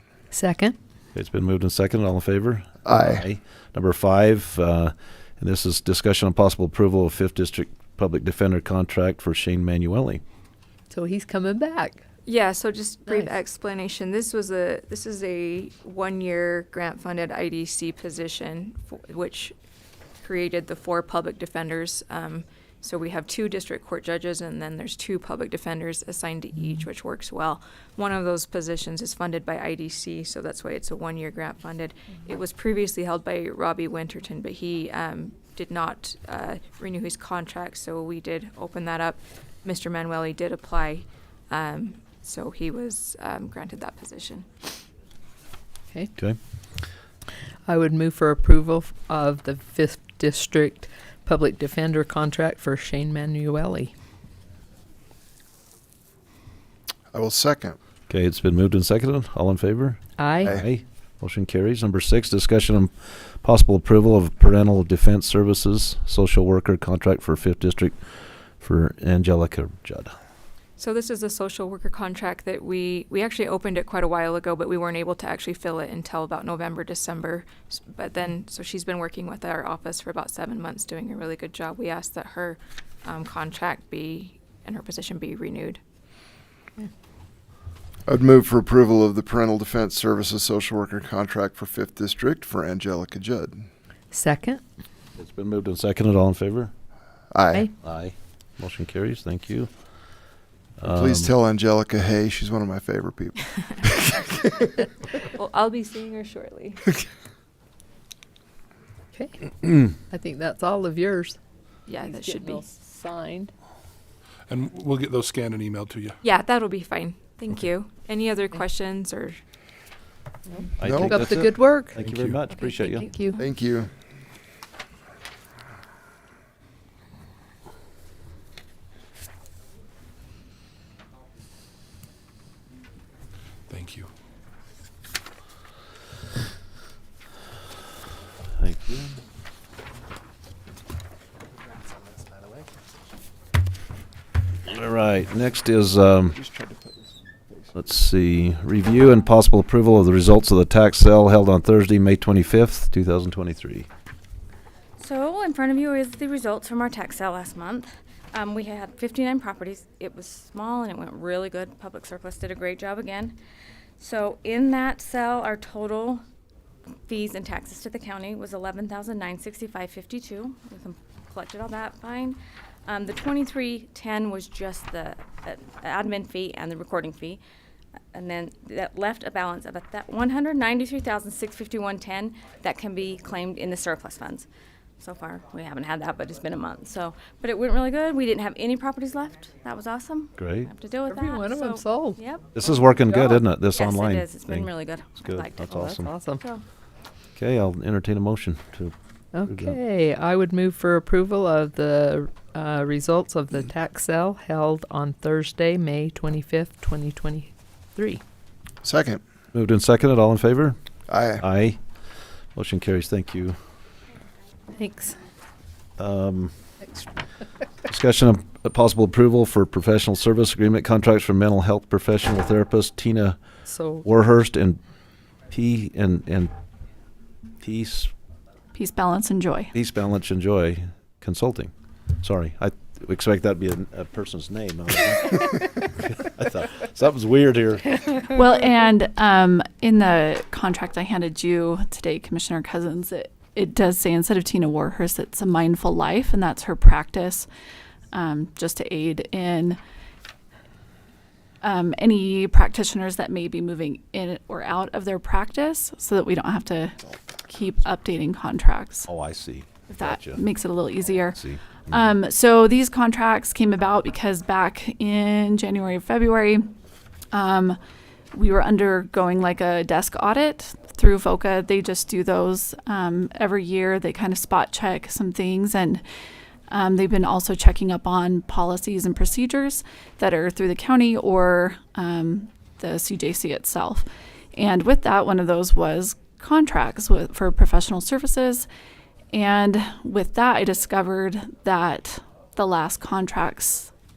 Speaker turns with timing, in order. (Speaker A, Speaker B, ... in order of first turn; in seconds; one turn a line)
Speaker A: 0.3-0.8
Speaker B: 1.1-10.2
Speaker C: 2.9-3.2
Speaker A: 10.9-12.0
Speaker D: 12.3-19.5
Speaker A: 13.1-13.3
Speaker D: 20.2-44.6
Speaker A: 47.7-53.9
Speaker C: 57.1-57.8
Speaker B: 58.1-68.0
Speaker A: 60.2-60.5
Speaker B: 68.6-70.1
Speaker D: 70.8-85.8
Speaker C: 88.1-93.7
Speaker A: 94.1-94.6
Speaker B: 95.2-96.7
Speaker C: 97.3-97.7
Speaker B: 97.8-99.7
Speaker B: 100.8-101.3
Speaker C: 100.8-104.3
Speaker D: 105.3-106.9
Speaker A: 109.2-111.4
Speaker D: 111.9-112.7
Speaker A: 112.0-113.5
Speaker E: 114.5-116.2
Speaker D: 116.2-119.4
Speaker B: 120.8-123.1
Speaker C: 120.8-121.3
Speaker A: 120.9-122.0
Speaker E: 122.0-122.5
Speaker A: 122.6-123.4
Speaker C: 123.4-123.9
Speaker E: 133.7-134.1
Speaker B: 138.6-139.1
Speaker B: 144.7-146.4
Speaker C: 146.3-147.7
Speaker B: 147.7-153.9
Speaker F: 155.0-163.4
Speaker F: 164.0-166.2
Speaker F: 167.1-177.4
Speaker F: 178.1-184.5
Speaker F: 185.0-192.5
Speaker B: 190.4-190.7
Speaker A: 191.1-192.2
Speaker B: 192.5-196.1
Speaker A: 193.1-193.4
Speaker F: 193.3-196.6
Speaker A: 195.6-196.4
Speaker B: 197.3-198.9
Speaker A: 199.3-208.2
Speaker B: 199.4-199.8
Speaker C: 208.8-209.2
Speaker B: 209.5-210.8
Speaker C: 211.1-211.4
Speaker B: 211.4-211.8
Speaker B: 212.5-213.6
Speaker A: 214.8-215.2
Speaker B: 216.0-216.5
Speaker B: 217.8-223.4
Speaker A: 223.7-224.0
Speaker B: 224.0-224.8
Speaker B: 225.5-226.5
Speaker B: 227.6-228.1
Speaker G: 228.8-229.7
Speaker B: 229.7-238.2
Speaker G: 238.3-247.5
Speaker G: 248.1-249.8
Speaker G: 251.6-259.1
Speaker B: 259.1-260.4
Speaker G: 259.9-266.6
Speaker B: 261.3-261.9
Speaker G: 267.3-267.8
Speaker G: 268.3-276.0
Speaker G: 276.7-288.7
Speaker G: 289.3-293.9